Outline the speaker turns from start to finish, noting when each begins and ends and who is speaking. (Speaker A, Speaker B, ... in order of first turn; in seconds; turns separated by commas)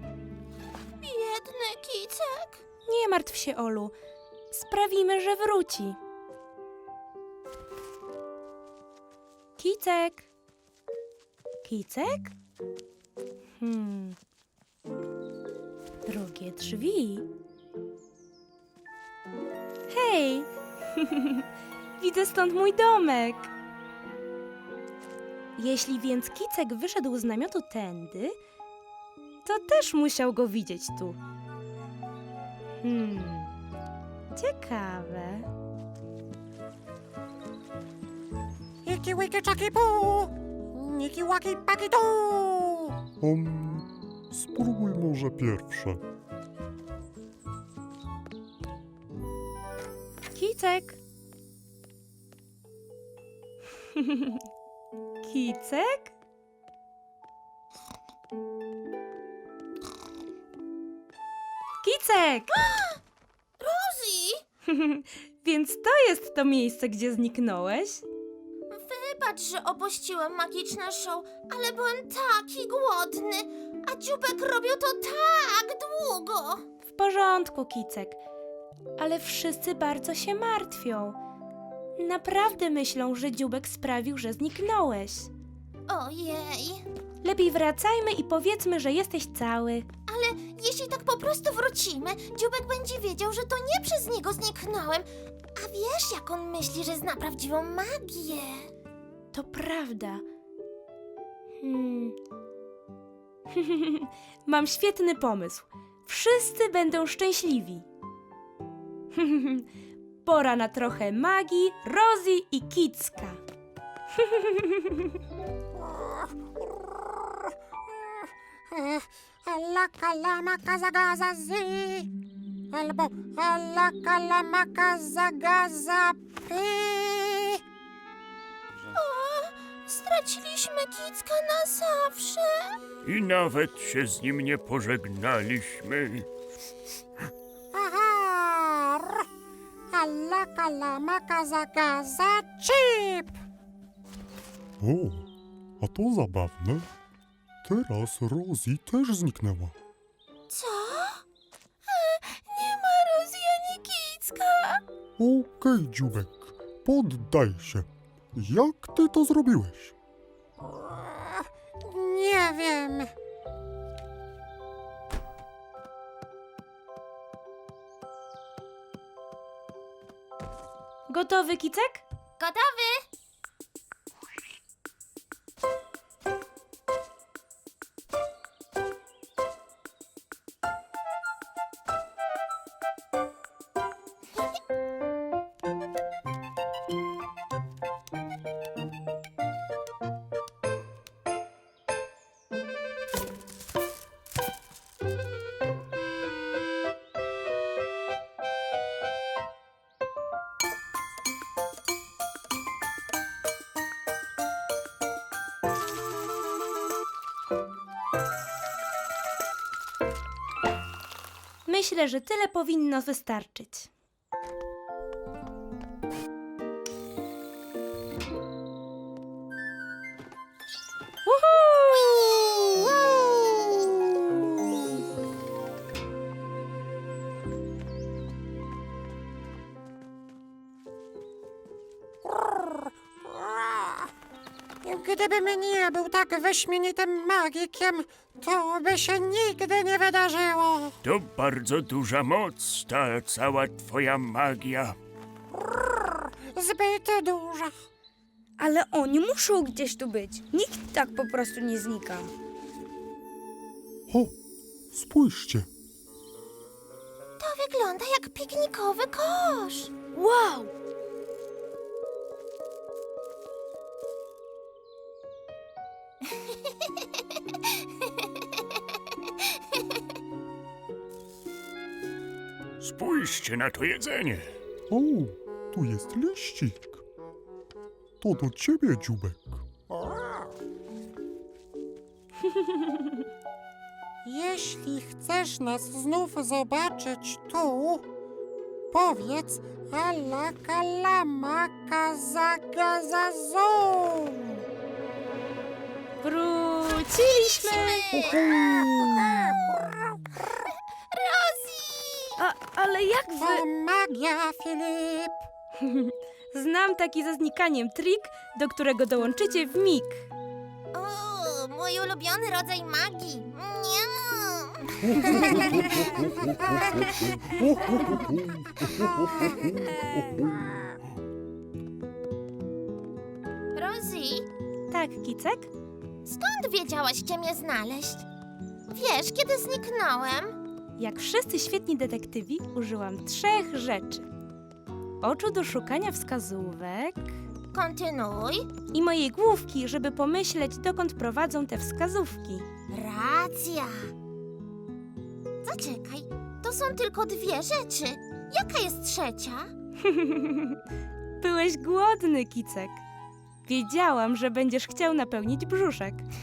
Speaker A: 1.0-2.6, Speaker B: 2.9-3.9, Speaker B: 4.5-6.0, Speaker B: 9.6-10.2, Speaker B: 11.6-12.3, Speaker B: 13.6-14.2, Speaker B: 16.1-17.3, Speaker B: 19.9-21.4, Speaker B: 22.0-23.5, Speaker B: 25.6-28.4, Speaker B: 29.4-31.2, Speaker B: 32.8-33.5, Speaker B: 34.3-35.5, Speaker C: 38.8-43.0, Speaker D: 43.2-46.0, Speaker B: 50.3-51.0, Speaker B: 54.0-54.3, Speaker B: 55.2-56.1, Speaker B: 61.8-62.5, Speaker A: 62.5-63.0, Speaker A: 63.6-64.4, Speaker B: 64.7-68.0, Speaker A: 68.7-76.6, Speaker B: 76.8-78.2, Speaker B: 79.0-81.2, Speaker B: 82.0-85.3, Speaker A: 85.9-86.8, Speaker B: 87.2-89.9, Speaker A: 90.1-98.7, Speaker B: 99.3-100.2, Speaker B: 101.6-102.2, Speaker B: 103.5-107.8, Speaker B: 109.1-109.7, Speaker B: 110.2-113.4, Speaker B: 114.2-115.0, Speaker C: 115.8-118.2, Speaker C: 118.7-122.1, Speaker C: 122.7-127.6, Speaker A: 128.9-132.8, Speaker E: 133.1-136.2, Speaker C: 137.7-139.2, Speaker C: 139.9-143.3, Speaker D: 144.8-145.3, Speaker D: 145.8-146.9, Speaker D: 147.6-149.7, Speaker A: 150.5-151.2, Speaker A: 151.9-154.8, Speaker D: 155.2-159.9, Speaker C: 160.7-163.1, Speaker B: 171.1-172.0, Speaker A: 172.4-173.0, Speaker B: 211.6-213.9, Speaker B: 221.2-222.1, Speaker C: 232.2-234.1, Speaker C: 234.8-241.0, Speaker E: 241.3-244.9, Speaker C: 245.5-247.7, Speaker F: 248.6-252.3, Speaker D: 254.1-254.3, Speaker D: 254.9-255.7, Speaker A: 257.4-259.9, Speaker B: 260.1-260.7, Speaker E: 272.8-274.4, Speaker D: 274.9-277.0, Speaker D: 278.2-279.6, Speaker C: 284.2-288.0, Speaker C: 288.9-294.6, Speaker B: 296.2-299.3, Speaker A: 297.2-298.4, Speaker C: 298.6-299.5, Speaker A: 301.1-302.3, Speaker B: 302.4-303.6, Speaker C: 303.3-305.4, Speaker B: 305.8-310.2, Speaker A: 310.9-316.2, Speaker F: 319.6-320.5, Speaker A: 323.7-324.5, Speaker B: 324.9-325.7, Speaker A: 326.2-328.2, Speaker A: 328.9-330.6, Speaker B: 331.0-334.2, Speaker B: 335.2-337.3, Speaker A: 337.7-338.7, Speaker B: 338.9-342.6, Speaker A: 342.9-344.1, Speaker A: 345.6-349.7, Speaker B: 350.0-350.8, Speaker B: 351.4-353.0, Speaker B: 353.6-356.2